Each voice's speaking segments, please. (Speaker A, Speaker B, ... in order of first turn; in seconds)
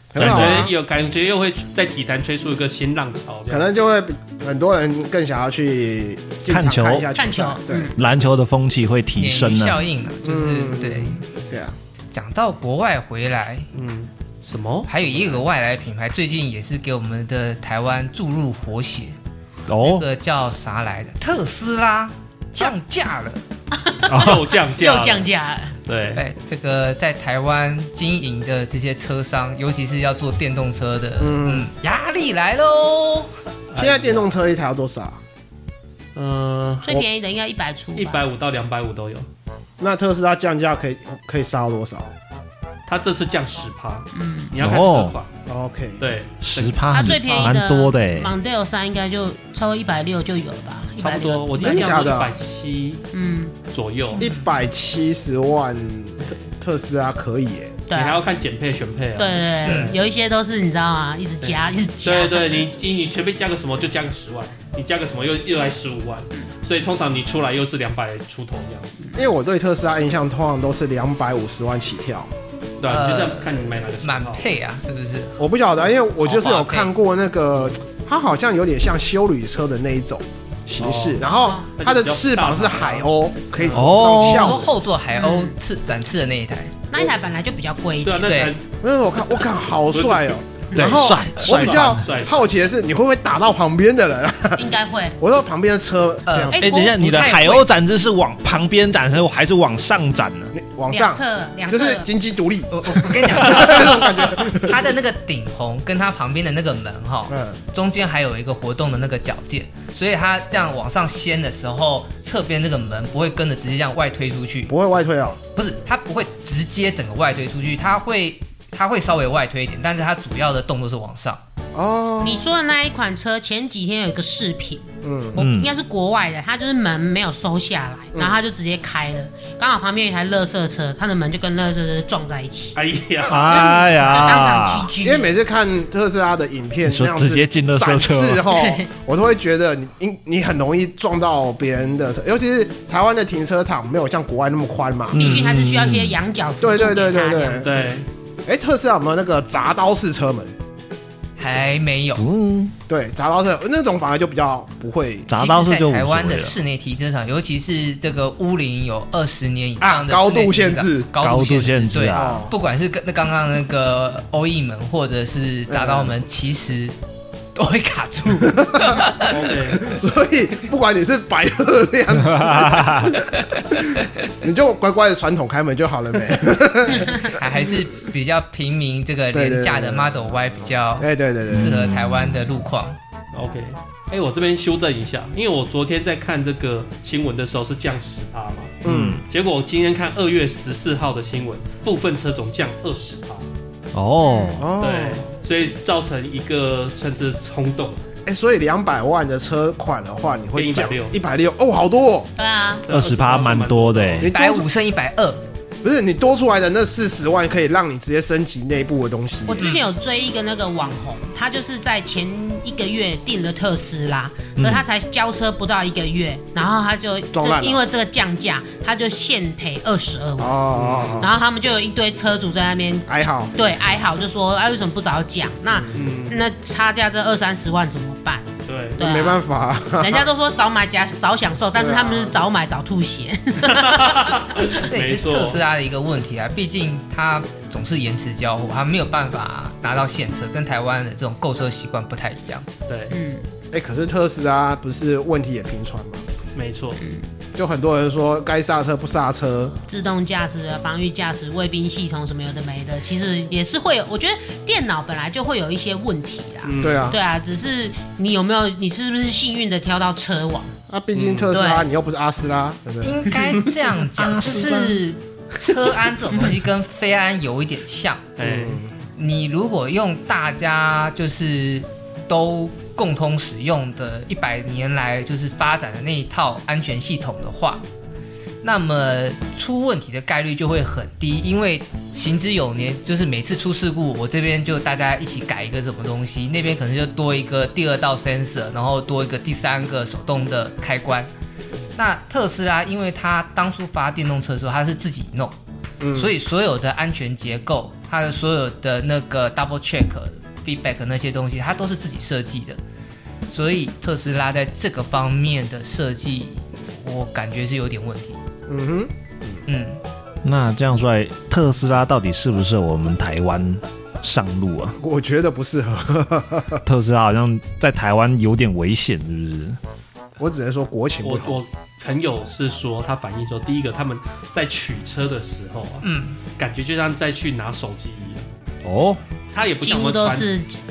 Speaker A: 0.1-0.7, 3.5-7.9, 10.2-11.7, 31.2-31.7, 33.8-35.2, 39.8-42.1, 45.5-46.0, 51.6-52.3, 54.2-57.8, 69.2-72.3, 75.4-84.7, 88.8-96.7, 100.5-104.8, 107.3-107.6, 114.7-115.4, 121.7-122.5, 125.0-125.4, 135.0-145.3, 146.6-147.7, 148.5-150.6, 152.9-155.3, 159.8-161.1, 162.1-162.5, 165.7-166.2, 168.5-169.0, 169.7-177.4, 179.3-180.2, 181.0-181.8, 188.8-189.2, 194.6-195.3, 198.3-202.3, 204.2-204.7, 205.8-209.7, 217.3-217.8, 220.4-221.4, 223.1-223.5, 225.7-226.1, 229.0-230.3, 231.8-232.4, 243.7-246.2, 247.6-249.8, 256.8-257.2, 260.9-263.2, 268.4-268.9, 296.0-296.3, 308.7-309.6, 315.0-316.8, 320.4-321.6
Speaker B: 0.2-0.7, 6.5-7.1, 8.0-9.8, 19.7-20.1, 24.1-24.4, 44.6-45.1, 46.4-48.3, 83.7-84.6, 90.8-92.1, 96.5-100.5, 125.4-125.7, 133.3-134.9, 136.8-138.5, 145.1-146.2, 152.2-152.7, 155.3-156.6, 161.2-162.5, 172.3-173.2, 181.5-182.5, 188.8-189.2, 193.9-194.7, 202.9-204.3, 214.6-214.8, 264.1-265.0, 310.4-315.0, 316.9-319.8, 328.8-329.2
Speaker C: 0.2-3.7, 13.7-15.4, 24.1-25.3, 25.9-26.2, 33.7-34.3, 36.1-37.0, 38.0-39.3, 42.9-45.3, 46.0-47.4, 51.0-53.1, 53.7-54.2, 57.9-60.0, 61.4-68.9, 72.8-74.5, 80.8-81.2, 81.7-84.0, 88.0-88.6, 89.9-90.4, 91.0-92.5, 132.8-133.7, 147.6-148.1, 169.2-170.0, 183.3-193.5, 194.8-198.0, 200.5-201.2, 202.9-204.3, 220.7-221.3, 225.9-226.4, 228.7-229.0, 233.7-235.6, 242.9-243.1, 246.6-247.0, 256.6-257.2, 261.1-261.5, 268.4-268.8, 321.2-328.5, 329.5-330.5
Speaker D: 7.2-8.0, 23.7-25.8, 36.9-38.2, 44.1-44.5, 46.9-52.1, 53.1-53.6, 57.9-58.2, 59.2-62.6, 81.3-81.7, 85.1-85.5, 86.9-88.5, 94.6-95.2, 100.9-102.1, 122.2-132.8, 133.3-135.3, 138.5-138.9, 145.1-147.7, 194.2-194.6, 202.4-202.9, 209.5-220.6, 221.2-229.4, 230.0-234.6, 243.1-243.4, 247.0-247.2, 249.9-260.7, 261.5-261.9, 329.8-330.8
Speaker E: 9.2-11.2, 12.1-13.7, 14.9-19.2, 19.8-23.4, 26.1-33.3, 54.1-54.5, 59.6-60.0, 72.9-75.4, 76.2-76.9, 84.1-86.8, 88.2-88.5, 96.3-97.7, 102.7-114.7, 115.5-121.4, 151.4-152.2, 155.3-166.9, 167.6-169.3, 177.3-183.0, 204.2-205.4, 234.8-242.7, 263.0-268.3, 269.2-277.8, 278.6-291.3, 292.0-295.6, 296.1-302.8, 303.5-308.4, 309.7-310.0, 326.0-326.4